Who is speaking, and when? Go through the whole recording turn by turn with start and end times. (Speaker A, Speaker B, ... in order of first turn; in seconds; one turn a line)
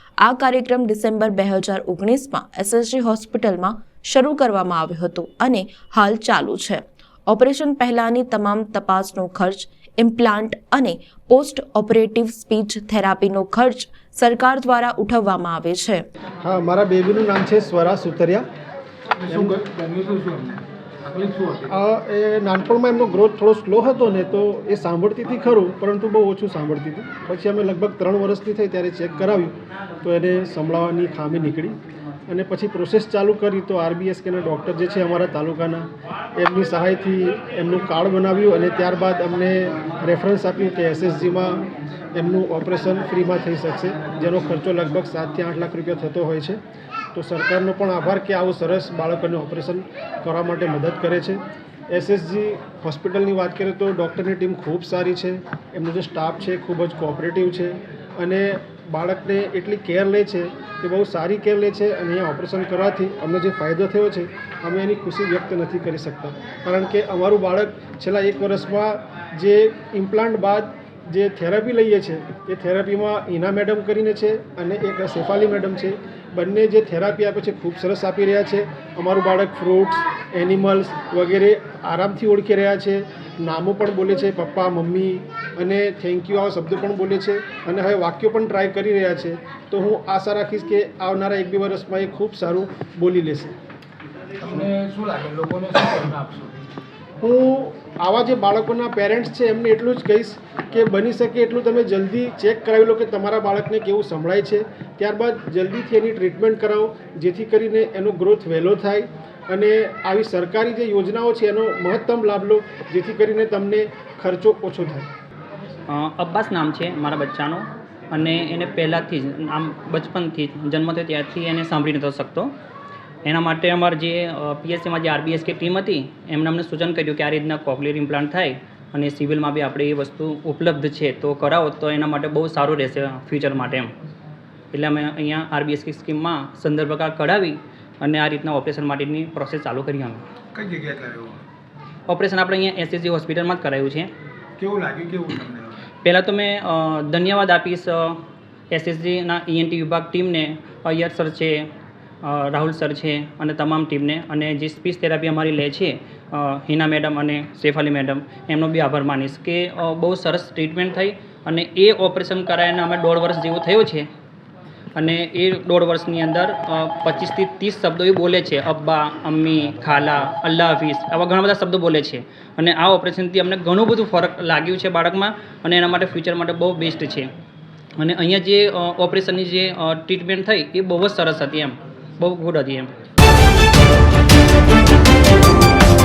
Speaker A: 0.2-16.0
Speaker B: 16.4-18.5
Speaker C: 19.4-21.6
Speaker B: 21.7-31.8
Speaker B: 32.3-46.6
Speaker B: 47.1-93.5
Speaker C: 94.4-96.6
Speaker B: 97.2-115.1
Speaker D: 115.9-122.5
Speaker D: 123.2-133.9
Speaker D: 134.7-140.2
Speaker C: 140.5-141.4
Speaker D: 142.1-144.1
Speaker C: 144.6-145.8
Speaker D: 146.0-151.7
Speaker D: 152.2-164.1
Speaker D: 165.0-177.3
Speaker D: 178.0-182.9